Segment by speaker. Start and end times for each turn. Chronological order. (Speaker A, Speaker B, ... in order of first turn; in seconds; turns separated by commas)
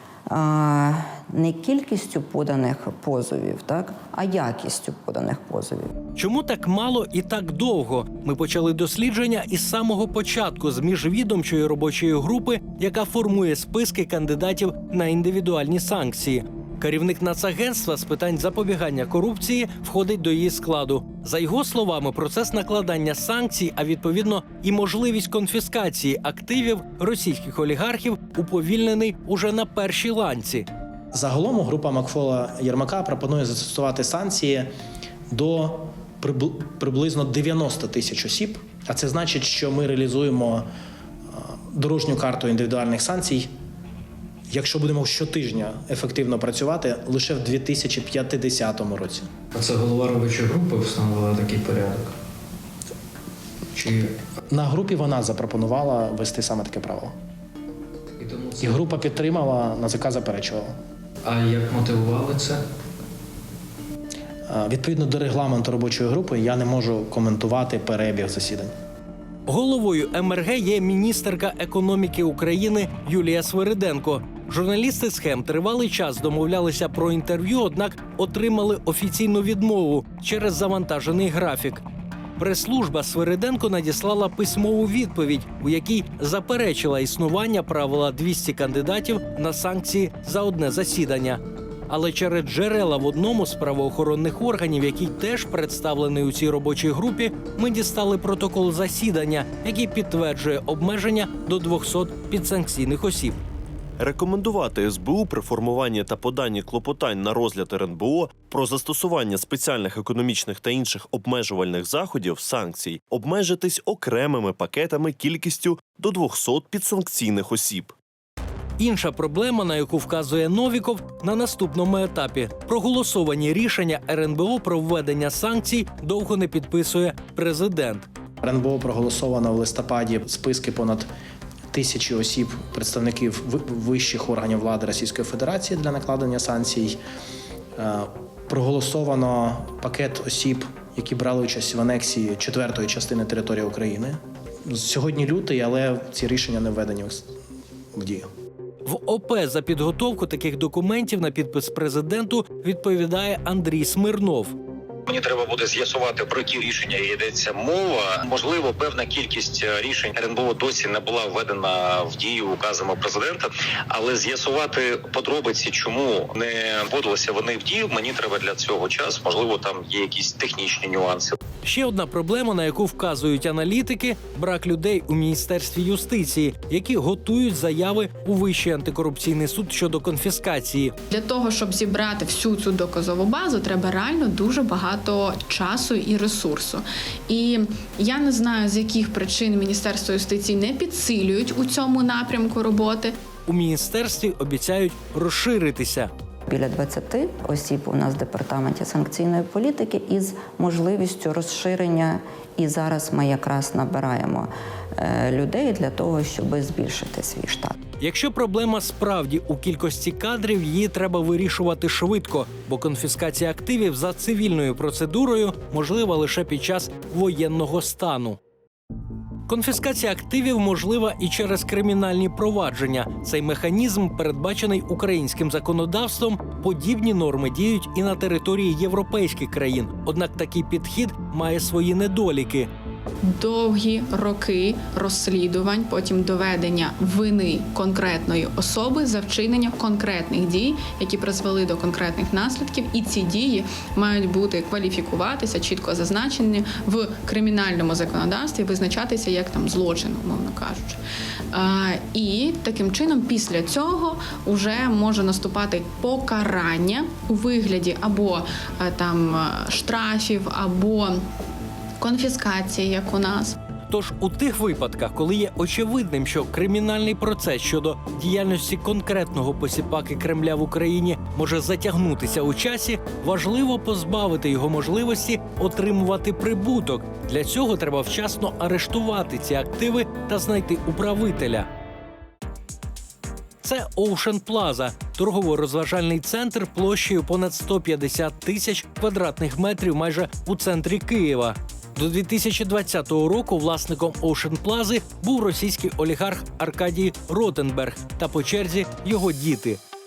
Speaker A: 0.3-5.9, Speaker B: 6.2-30.7, Speaker C: 31.1-34.7, Speaker C: 35.3-40.7, Speaker C: 41.3-43.5, Speaker C: 44.5-49.3, Speaker D: 49.5-52.1, Speaker D: 53.8-54.1, Speaker C: 54.5-57.1, Speaker D: 58.2-58.9, Speaker C: 58.6-60.7, Speaker D: 61.2-62.6, Speaker C: 64.5-68.7, Speaker B: 69.5-81.8, Speaker B: 82.4-103.4, Speaker E: 104.0-117.9, Speaker B: 118.8-128.1, Speaker C: 128.4-131.1, Speaker C: 131.7-137.0, Speaker C: 137.8-147.3, Speaker C: 147.9-148.3, Speaker B: 148.8-154.6, Speaker F: 155.1-171.3, Speaker B: 171.7-180.9, Speaker G: 181.1-193.2, Speaker B: 193.5-196.1, Speaker A: 196.5-207.8, Speaker B: 208.0-218.4, Speaker B: 219.5-232.7, Speaker G: 233.2-251.0, Speaker G: 251.5-261.2, Speaker G: 262.0-263.6, Speaker B: 263.9-281.7, Speaker B: 283.6-299.8